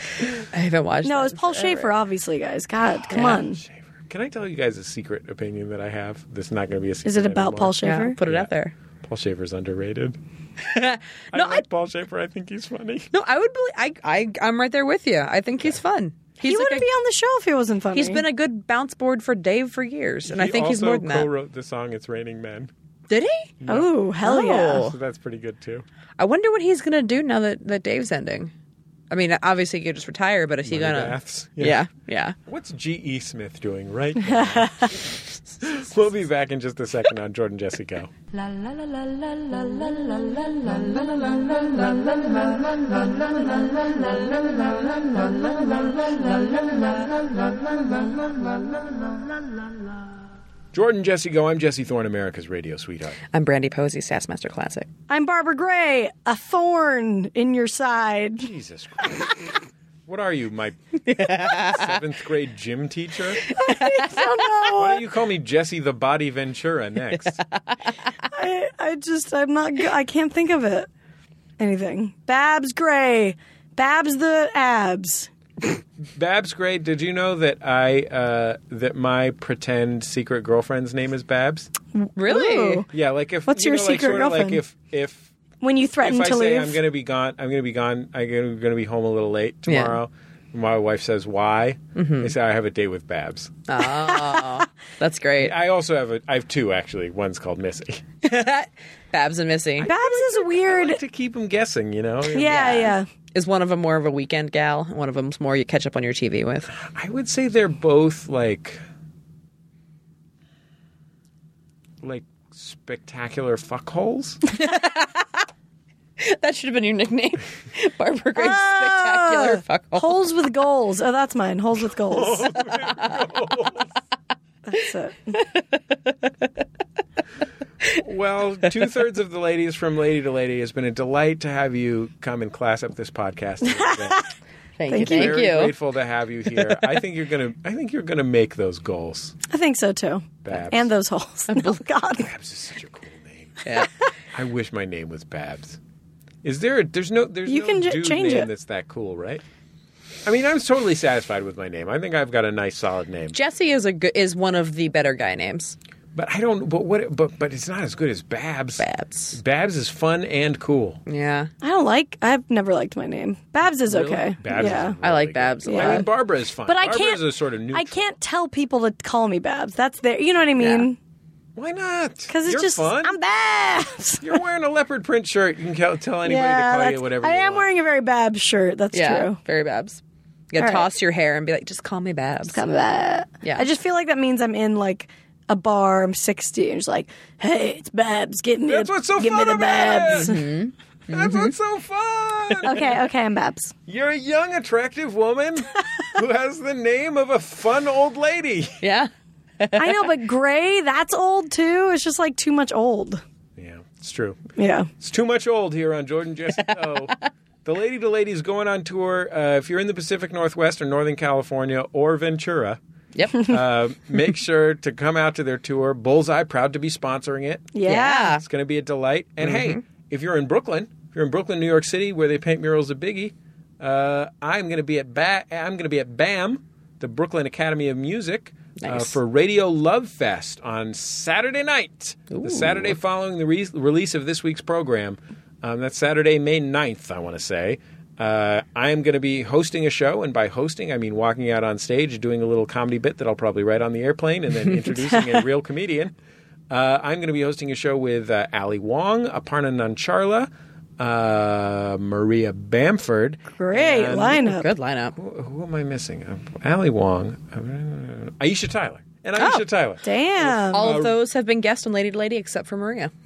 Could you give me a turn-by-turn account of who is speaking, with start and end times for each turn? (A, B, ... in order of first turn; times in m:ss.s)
0:00.2-0:01.9 A
0:01.0-0:03.6 B
0:03.1-0:08.5 C
0:03.1-0:03.4 A
0:07.0-0:08.2 B
0:07.8-0:08.7 A
0:09.0-0:10.2 C
0:10.6-0:11.6 A
0:11.3-0:13.1 C
0:13.1-0:16.9 A
0:16.4-0:18.2 B
0:17.9-0:21.3 A
0:20.2-0:22.7 C
0:23.1-0:23.5 A
0:23.6-0:23.9 C
0:23.7-0:24.9 B
0:24.2-0:25.0 A
0:24.6-0:25.8 C
0:26.2-0:28.5 A
0:29.1-0:32.4 A
0:30.6-0:31.8 C
0:32.5-0:38.1 C
0:34.6-0:34.9 B
0:38.3-0:49.1 D
0:50.7-0:53.2 C
0:53.3-0:54.9 A
0:55.1-0:58.5 B
0:58.4-1:03.5 C
1:01.1-1:01.9 A
1:03.5-1:05.0 B
1:03.6-1:04.1 A
1:04.7-1:07.4 C
1:08.3-1:10.9 B
1:11.6-1:15.3 B
1:16.1-1:21.7 C
1:22.1-1:22.9 B
1:22.2-1:22.9 A
1:22.9-1:25.3 C
1:23.5-1:24.6 B
1:25.6-1:26.8 B
1:26.0-1:33.6 C
1:29.7-1:30.0 A
1:32.0-1:32.3 A
1:33.7-1:35.5 A
1:35.4-1:38.1 C
1:38.2-1:39.9 A
1:39.8-1:42.7 C
1:39.8-1:41.0 B
1:42.3-1:43.1 B
1:42.4-1:46.7 A
1:46.7-1:48.8 C
1:52.0-1:54.4 C
1:54.6-1:55.3 A
1:56.2-2:00.2 A
1:58.4-2:02.5 B
2:02.1-2:03.9 C
2:02.8-2:03.2 A
2:04.7-2:05.4 B
2:05.4-2:06.3 A
2:08.0-2:14.3 C
2:13.8-2:14.3 B
2:14.8-2:15.7 A
2:14.9-2:15.4 B
2:15.0-2:19.4 C
2:19.5-2:22.3 B
2:20.4-2:20.9 C
2:21.5-2:21.8 A
2:22.2-2:23.6 C
2:23.6-2:23.9 A
2:24.3-2:25.8 C
2:26.4-2:29.4 C
2:27.5-2:28.5 B
2:30.2-2:33.4 C
2:33.3-2:35.8 A
2:36.2-2:41.0 C
2:38.8-2:39.4 A
2:41.1-2:41.5 A
2:41.6-2:45.0 B
2:43.9-2:48.0 C
2:44.5-2:46.1 A
2:45.7-2:46.0 B
2:46.7-2:51.0 B
2:50.6-2:50.9 A
2:51.6-2:53.2 C
2:52.3-2:54.4 B
2:54.2-2:57.7 C
2:56.2-2:59.4 B
2:58.9-3:02.6 A
3:00.6-3:00.9 B
3:02.5-3:10.4 B
3:03.4-3:03.7 A
3:08.7-3:10.4 C
3:10.1-3:11.5 A
3:11.1-3:12.8 C
3:12.6-3:13.7 B
3:13.9-3:18.8 C
3:18.8-3:20.1 A
3:19.8-3:23.2 B
3:23.6-3:24.4 C
3:24.6-3:24.9 B
3:25.0-3:32.8 C
3:26.6-3:27.2 A
3:33.2-3:33.6 A
3:33.4-3:37.7 C
3:37.7-3:38.4 B
3:37.8-3:38.4 A
3:38.4-4:06.1 C
3:39.4-3:39.8 A
3:48.8-3:49.2 A
3:52.3-3:53.0 A
4:06.7-4:14.5 C
4:13.6-4:14.7 B
4:14.2-4:15.2 A
4:15.2-4:21.2 C
4:20.0-4:20.8 B
4:20.7-4:23.1 A